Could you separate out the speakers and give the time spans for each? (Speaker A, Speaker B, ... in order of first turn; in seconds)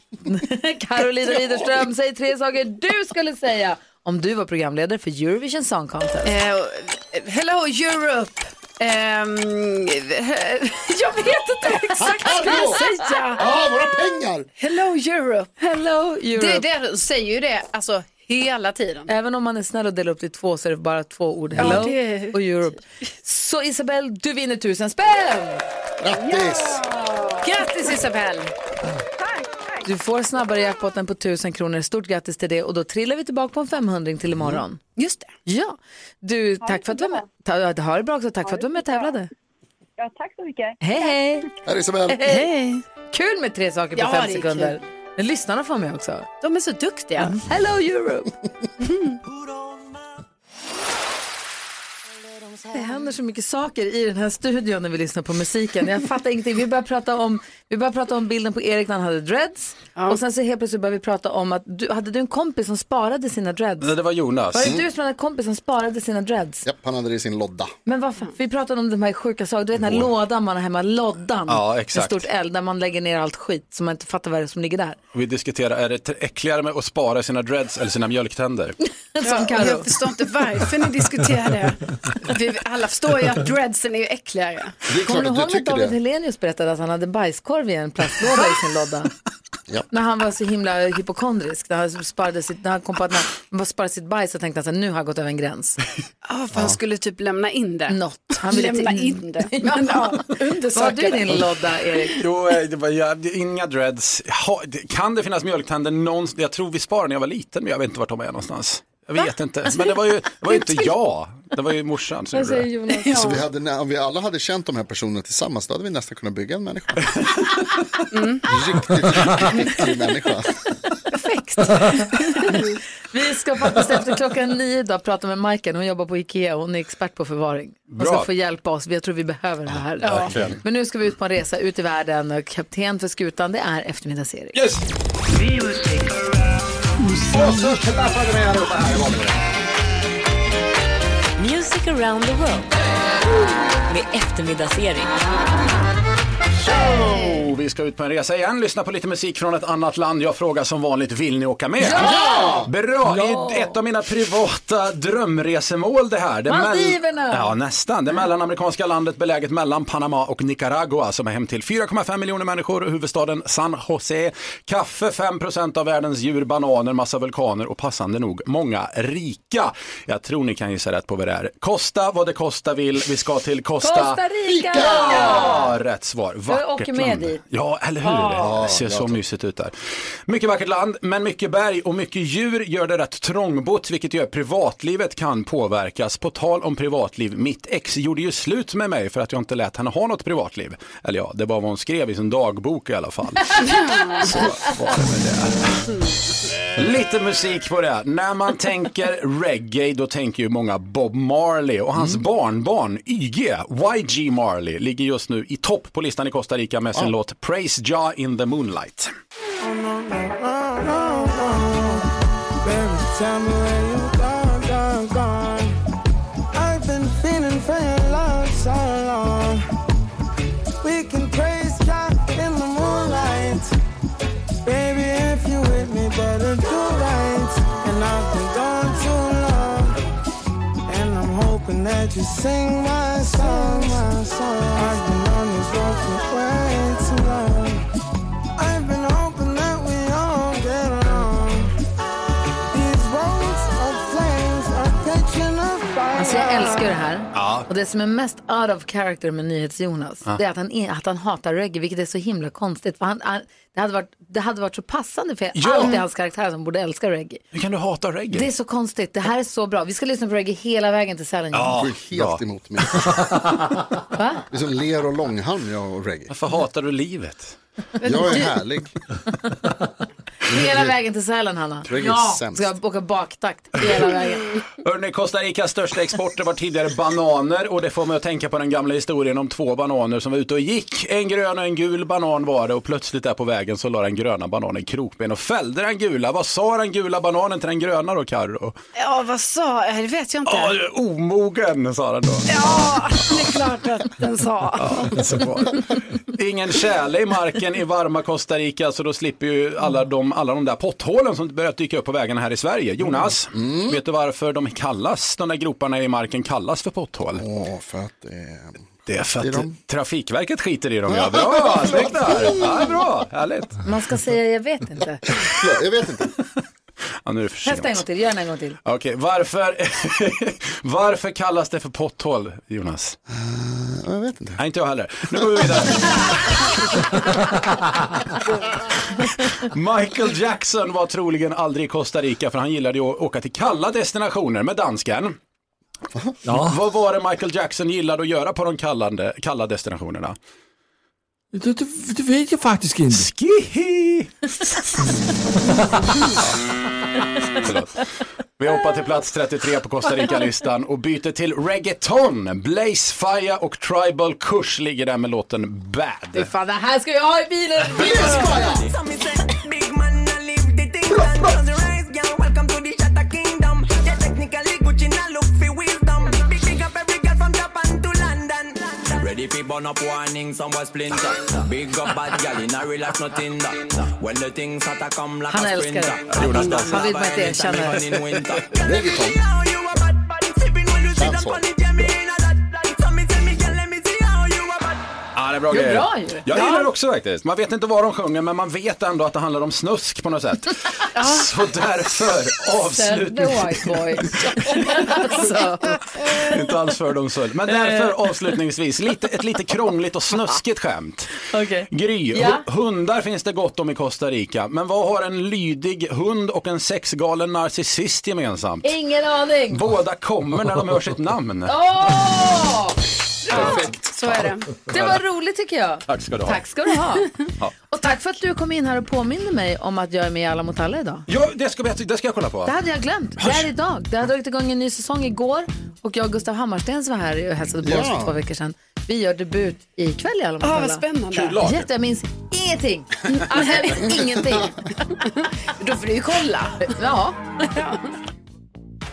Speaker A: 0.2-6.3, 11.6-13.1, 15.6-16.7, 19.1-25.6, 29.9-34.8, 35.5-39.3, 40.8-41.5, 42.1-42.5, 43.1-46.3, 47.2-48.3, 52.7-63.9, 64.5-66.7, 67.9-75.0, 79.1-79.9, 85.0-89.1, 89.9-95.8, 97.9-102.2, 112.4-113.1, 121.1-134.6, 151.8-153.7, 156.5-157.5, 173.8-175.7, 176.5-177.4, 178.1-178.4, 246.2-257.4, 258.3-261.8, 264.1-264.4, 270.5-274.6, 313.8-315.2, 317.6-318.8, 356.3-358.6, 375.5-378.2, 385.7-386.9, 392.9-396.0, 397.7-398.1, 401.5-402.6, 408.8-409.8, 411.7-413.0, 413.5-413.8, 414.9-417.3, 417.9-421.3, 422.7-431.0, 431.6-434.9, 436.8-437.7
Speaker B: 6.2-13.5, 14.6-15.5, 16.4-19.1, 21.6-22.4, 27.4-28.5, 35.0-35.3, 42.3-42.8, 44.0-44.8, 46.4-47.4, 48.8-49.2, 79.2-84.8, 96.2-101.5, 112.8-113.4, 118.1-118.5, 130.0-130.3, 193.6-194.4, 289.0-290.8, 292.5-295.2, 391.1-391.5, 413.5-414.7, 430.6-431.6, 433.5-434.1, 435.8-436.9, 437.7-438.1
Speaker C: 12.0-12.8, 13.3-14.5, 21.6-21.8, 26.0-26.8, 41.6-42.2, 66.7-67.7, 84.9-86.0, 113.2-117.1, 118.5-120.5, 152.0-152.7, 174.5-175.7, 178.4-179.2, 202.0-202.2, 261.7-263.3, 264.5-266.3, 268.0-268.9, 270.5-270.9, 271.9-272.8, 303.3-304.0, 307.4-308.9, 309.4-309.8, 311.1-313.0, 315.4-316.3, 323.3-324.6, 357.9-358.9, 361.1-361.6, 378.8-379.4, 381.1-381.6, 427.8-428.4
Speaker D: 26.1-27.7, 29.2-29.9, 36.6-37.3, 38.4-39.2, 40.0-41.2
Speaker E: 63.8-64.8, 71.5-72.3, 75.1-78.8, 102.2-112.7, 127.9-128.3, 130.0-130.6, 134.5-134.8, 137.2-139.4, 146.7-174.2, 175.0-179.7, 180.3-193.7, 194.3-195.8, 196.8-209.1, 247.3-247.7, 255.6-256.0, 257.5-258.5, 261.5-262.4, 266.3-267.6, 274.8-288.8, 290.5-292.7, 294.8-295.8, 296.3-307.4, 309.1-313.8, 317.2-318.0, 318.9-323.2, 324.6-326.6, 329.6-335.4, 336.5-340.4, 343.1-344.3, 347.6-348.0, 348.6-356.5, 376.3-377.1, 385.4-394.8, 396.4-408.9, 409.7-411.8, 413.5-415.2, 416.1-416.6, 421.3-422.8, 423.4-423.7, 431.3-431.9
Speaker F: 141.4-142.7, 143.9-145.2
Speaker G: 153.1-153.4, 336.4-336.8, 341.5-343.3, 345.7-346.0
Speaker H: 209.6-212.1, 212.6-215.7, 216.6-219.6, 220.8-223.7, 224.6-230.0, 230.9-237.8, 238.6-241.7, 242.7-246.9
Speaker I: 357.9-385.0